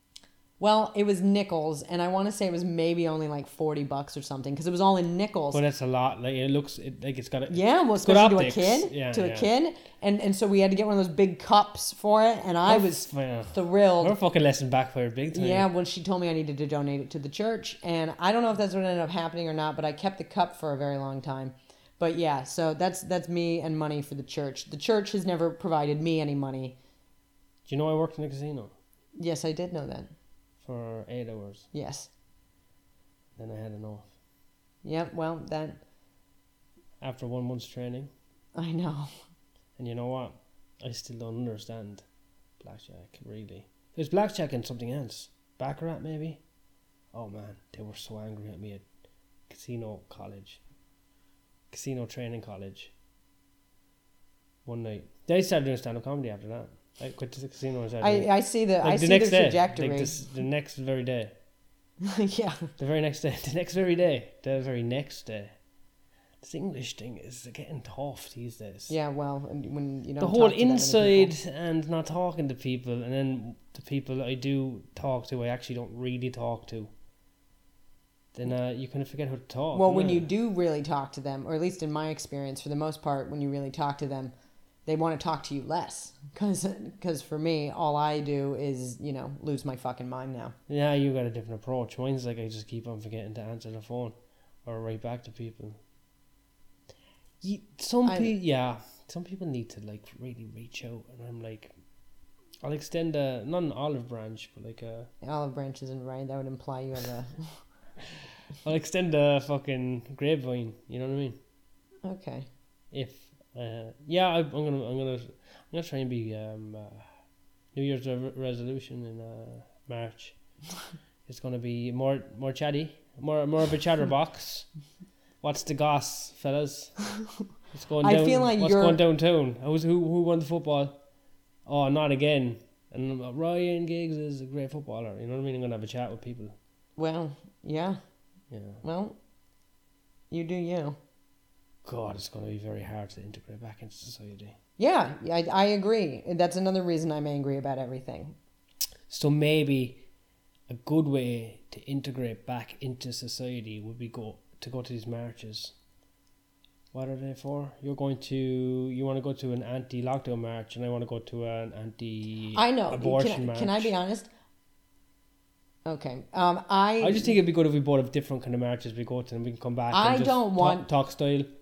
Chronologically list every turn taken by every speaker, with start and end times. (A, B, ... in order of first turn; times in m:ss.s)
0:00.6-0:05.6 A
0:05.5-0:09.5 B
0:07.5-0:14.1 A
0:12.6-0:15.7 B
0:15.3-0:26.8 A
0:27.6-0:28.7 B
0:29.2-0:30.1 A
0:30.6-0:31.7 B
0:31.7-0:32.1 A
0:33.4-0:34.1 B
0:34.8-0:35.8 A
0:37.0-0:38.1 B
0:38.5-0:39.1 A
0:39.8-0:42.0 B
0:42.6-0:46.4 B
0:47.1-0:48.8 B
0:49.5-0:50.6 B
0:51.7-0:52.9 B
0:54.6-0:58.3 B
0:58.0-1:00.2 A
0:58.8-1:01.3 B
1:02.0-1:02.7 A
1:02.8-1:05.5 B
1:06.4-1:08.9 B
1:08.9-1:11.3 A
1:10.2-1:16.9 B
1:18.3-1:20.3 B
1:19.7-1:24.3 A
1:24.8-1:30.5 A
1:30.7-1:34.1 B
1:34.6-1:35.8 B
1:37.4-1:41.7 B
1:38.0-1:38.3 A
1:42.6-1:45.1 B
1:45.2-1:47.6 A
1:48.6-1:51.4 B
1:52.0-1:52.5 A
1:52.9-1:57.1 B
1:57.7-2:00.4 B
2:01.3-2:04.7 B
2:05.4-2:07.0 B
2:07.7-2:11.0 B
2:08.0-2:09.0 A
2:11.6-2:16.5 B
2:17.0-2:18.0 A
2:18.5-2:18.8 B
2:18.8-2:19.2 A
2:20.3-2:21.0 A
2:21.8-2:24.6 B
2:24.8-2:28.4 A
2:29.1-2:30.0 B
2:30.7-2:35.7 B
2:36.9-2:43.9 B
2:42.5-2:44.3 A
2:45.8-2:47.4 A
2:47.0-2:51.5 B
2:49.9-2:50.9 A